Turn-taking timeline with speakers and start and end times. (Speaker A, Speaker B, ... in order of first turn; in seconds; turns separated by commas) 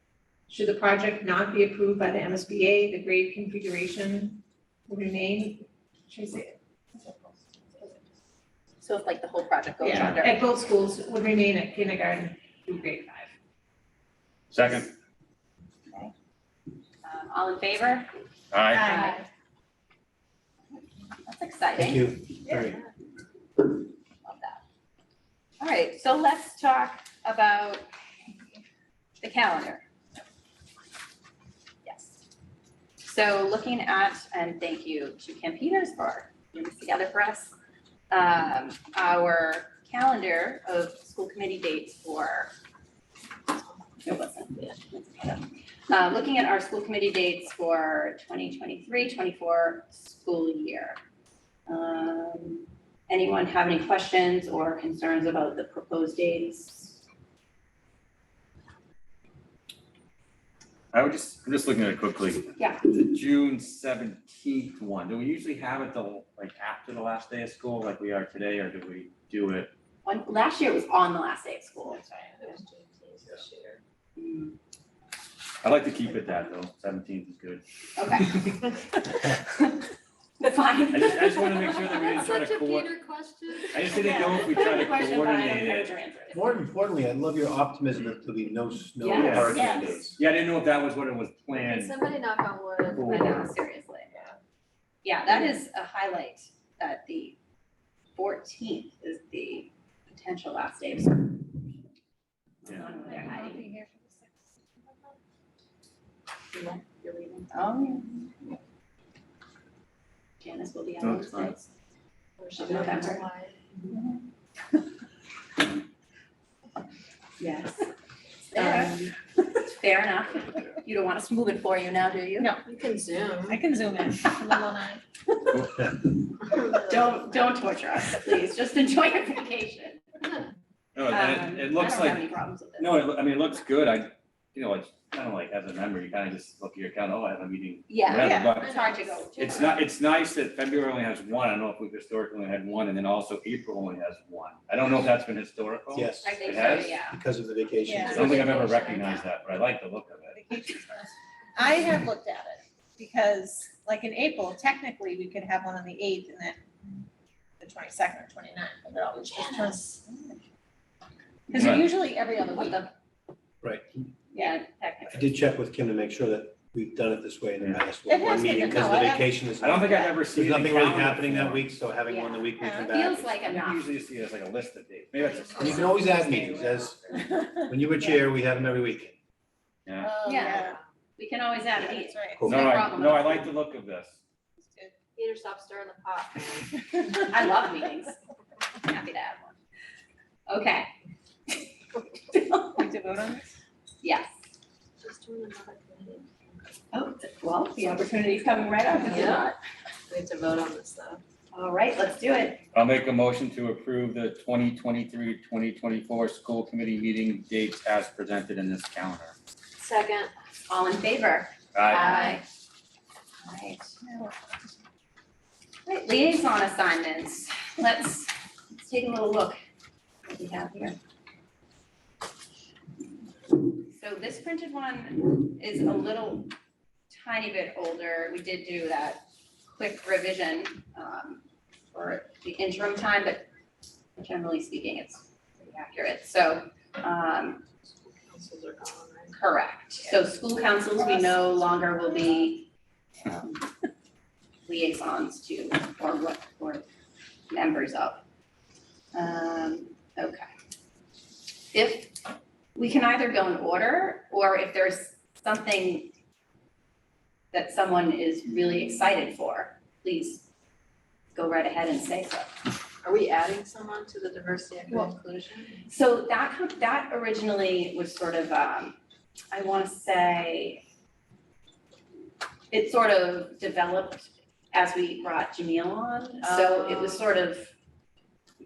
Speaker A: 0.5-8.0, Speaker B: 8.8-10.4, Speaker A: 9.8-13.3, Speaker C: 14.5-14.9, Speaker B: 17.0-18.1, Speaker C: 18.5-18.9, Speaker A: 18.7-19.3, Speaker B: 18.8-19.2, Speaker B: 21.2-22.2, Speaker D: 21.8-22.8, Speaker E: 22.5-22.9, Speaker B: 24.2-24.6, Speaker B: 25.6-27.9, Speaker B: 29.2-29.8, Speaker B: 31.8-32.2, Speaker B: 33.0-37.5, Speaker B: 38.1-42.5, Speaker B: 44.0-51.0, Speaker B: 51.7-57.0, Speaker C: 60.9-69.7, Speaker B: 62.6-62.8, Speaker B: 70.0-72.0, Speaker E: 72.0-73.8, Speaker B: 74.2-74.5, Speaker C: 75.6-78.6, Speaker B: 78.0-79.9, Speaker B: 80.4-82.0, Speaker C: 80.9-83.0, Speaker E: 81.6-84.7, Speaker C: 83.7-86.0, Speaker B: 83.9-86.5, Speaker D: 86.3-90.2, Speaker B: 89.0-90.0, Speaker C: 89.2-92.0, Speaker E: 91.5-93.3, Speaker C: 92.9-93.4, Speaker B: 93.0-94.1, Speaker B: 95.0-97.3, Speaker B: 98.2-101.7, Speaker B: 102.6-103.7, Speaker A: 103.0-105.1, Speaker B: 106.5-108.5, Speaker B: 110.4-111.7, Speaker C: 111.0-111.5, Speaker E: 112.4-113.8, Speaker B: 112.6-113.2, Speaker B: 113.9-114.2, Speaker B: 117.4-117.9, Speaker B: 118.5-122.6, Speaker A: 118.5-119.1, Speaker A: 122.4-122.6, Speaker E: 122.6-123.6, Speaker A: 123.5-125.0, Speaker C: 125.5-125.8, Speaker E: 126.4-127.1, Speaker B: 126.7-130.0, Speaker C: 130.9-132.2, Speaker B: 131.1-133.0, Speaker C: 132.8-138.8, Speaker B: 137.9-139.8, Speaker A: 138.1-139.8, Speaker C: 139.4-147.0, Speaker D: 145.9-148.5, Speaker B: 146.2-147.2, Speaker A: 147.8-148.3, Speaker E: 148.0-149.2, Speaker C: 148.1-150.4, Speaker B: 148.2-148.6, Speaker A: 150.3-156.7, Speaker A: 157.6-160.3, Speaker B: 159.3-159.8, Speaker B: 161.5-162.9, Speaker A: 161.5-162.9, Speaker C: 161.6-161.8, Speaker D: 163.6-164.1, Speaker B: 164.3-165.2, Speaker D: 165.1-173.4, Speaker A: 168.1-169.4, Speaker C: 169.6-171.7, Speaker B: 172.1-173.8, Speaker A: 172.6-172.9, Speaker C: 173.4-176.0, Speaker D: 175.6-177.0, Speaker E: 175.6-176.9, Speaker A: 176.0-177.5, Speaker D: 177.6-179.2, Speaker C: 179.8-180.2, Speaker A: 180.0-180.8, Speaker B: 180.2-180.7, Speaker E: 180.5-180.9, Speaker B: 181.2-183.5, Speaker A: 181.8-182.5, Speaker D: 182.4-182.8, Speaker C: 182.4-184.2, Speaker E: 185.2-186.9, Speaker B: 187.2-188.2, Speaker B: 188.8-189.6, Speaker B: 190.5-190.9, Speaker B: 192.3-192.8, Speaker A: 192.8-193.5, Speaker B: 194.0-194.3, Speaker E: 195.0-196.8, Speaker B: 196.9-199.6, Speaker E: 199.0-199.5, Speaker E: 200.1-201.2, Speaker B: 201.5-202.6, Speaker C: 202.7-209.3, Speaker E: 209.8-210.3, Speaker B: 210.7-212.4, Speaker C: 211.7-212.3, Speaker B: 213.4-214.3, Speaker B: 215.8-219.6, Speaker B: 220.3-221.0, Speaker B: 223.8-226.5, Speaker B: 227.1-233.4, Speaker B: 234.2-237.6, Speaker E: 238.0-239.3, Speaker B: 239.3-242.7, Speaker B: 243.2-243.6, Speaker B: 244.7-246.8, Speaker B: 247.5-248.2, Speaker B: 249.1-250.4, Speaker B: 251.7-252.2, Speaker B: 252.7-256.1, Speaker B: 257.5-260.5, Speaker B: 261.3-262.5, Speaker E: 263.0-265.8, Speaker B: 265.9-268.9, Speaker B: 269.5-270.8, Speaker B: 272.7-277.7, Speaker E: 276.4-277.3